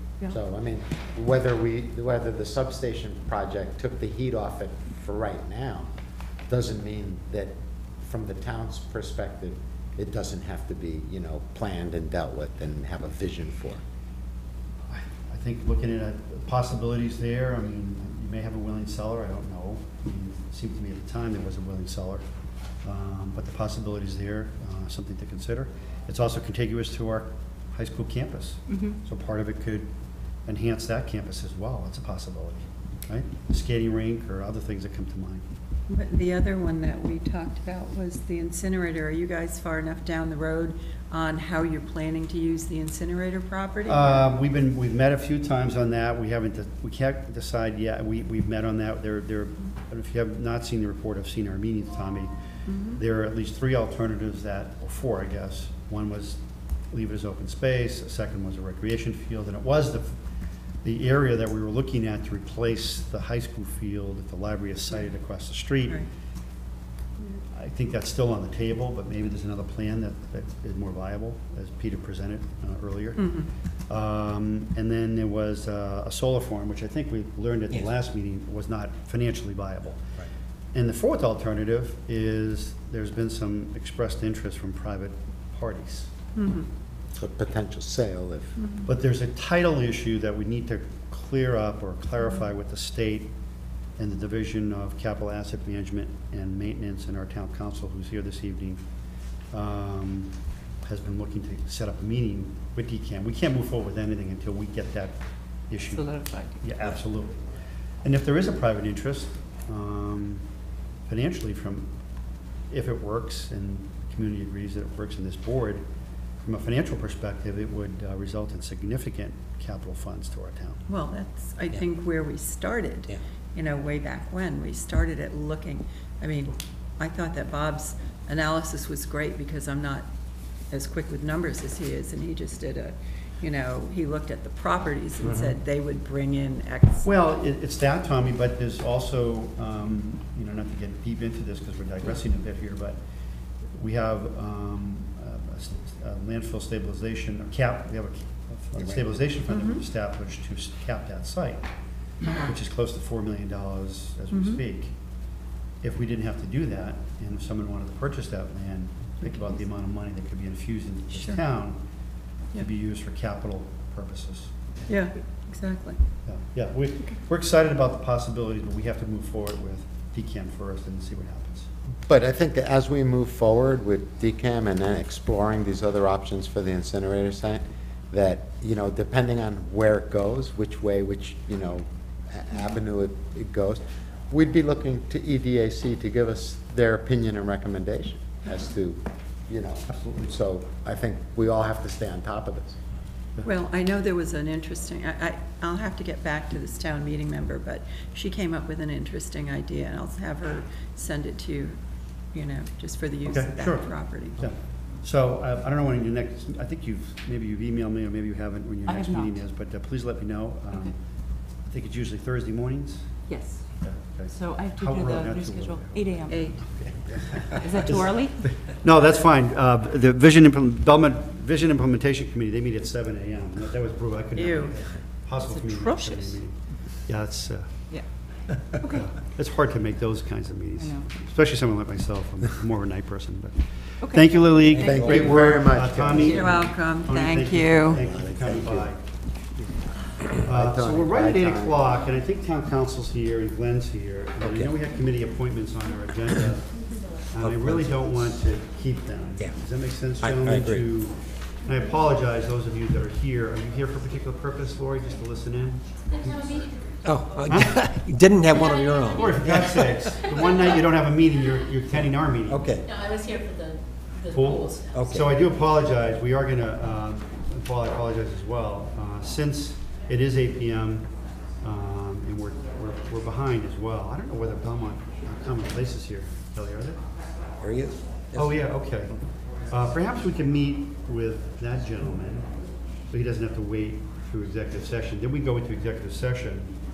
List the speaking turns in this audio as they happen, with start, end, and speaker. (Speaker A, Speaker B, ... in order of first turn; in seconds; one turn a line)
Speaker A: 0.2-5.9
Speaker A: 6.5-13.8
Speaker B: 14.9-22.2
Speaker B: 22.8-29.9
Speaker B: 30.5-35.5
Speaker C: 35.9-44.3
Speaker B: 43.9-52.3
Speaker C: 52.7-53.0
Speaker B: 53.0-56.4
Speaker B: 56.9-60.2
Speaker B: 60.8-66.0
Speaker B: 67.3-73.3
Speaker C: 73.2-73.5
Speaker B: 73.9-80.0
Speaker B: 80.7-86.1
Speaker C: 86.3-86.7
Speaker A: 87.1-88.5
Speaker C: 88.6-88.9
Speaker B: 88.8-93.3
Speaker B: 94.0-98.8
Speaker B: 99.5-105.2
Speaker B: 105.7-107.4
Speaker D: 105.9-106.6
Speaker B: 108.0-110.4
Speaker B: 111.1-111.9
Speaker B: 112.7-115.8
Speaker B: 116.4-120.8
Speaker C: 120.9-130.1
Speaker C: 130.7-137.1
Speaker B: 137.0-143.0
Speaker B: 143.7-151.7
Speaker A: 148.8-149.2
Speaker C: 149.5-149.8
Speaker B: 152.4-154.9
Speaker C: 154.3-154.6
Speaker B: 155.8-161.8
Speaker C: 161.1-161.4
Speaker B: 162.5-164.7
Speaker C: 164.9-166.0
Speaker B: 166.2-171.7
Speaker A: 172.1-192.8
Speaker B: 189.9-190.3
Speaker C: 193.4-201.8
Speaker C: 202.3-204.4
Speaker B: 203.2-210.9
Speaker D: 208.9-209.4
Speaker B: 211.6-213.2
Speaker D: 213.3-213.6
Speaker B: 213.8-227.8
Speaker D: 214.3-216.6
Speaker C: 216.3-216.6
Speaker D: 217.6-218.4
Speaker C: 224.3-224.8
Speaker D: 225.4-226.4
Speaker D: 228.7-229.1
Speaker B: 228.8-239.0
Speaker D: 230.8-231.1
Speaker D: 234.0-234.3
Speaker E: 234.7-235.4
Speaker A: 234.8-236.7
Speaker C: 236.1-238.0
Speaker A: 237.9-238.9
Speaker A: 240.4-241.9
Speaker B: 240.4-256.4
Speaker E: 244.4-244.7
Speaker E: 247.4-247.9
Speaker E: 250.2-250.9
Speaker F: 256.1-256.9
Speaker E: 257.0-260.3
Speaker B: 257.5-257.9
Speaker F: 258.5-259.5
Speaker B: 259.1-262.7
Speaker E: 262.5-262.8
Speaker F: 262.8-265.0
Speaker B: 264.3-277.0
Speaker E: 264.9-265.3
Speaker E: 277.6-278.6
Speaker B: 278.3-282.5
Speaker B: 283.1-286.7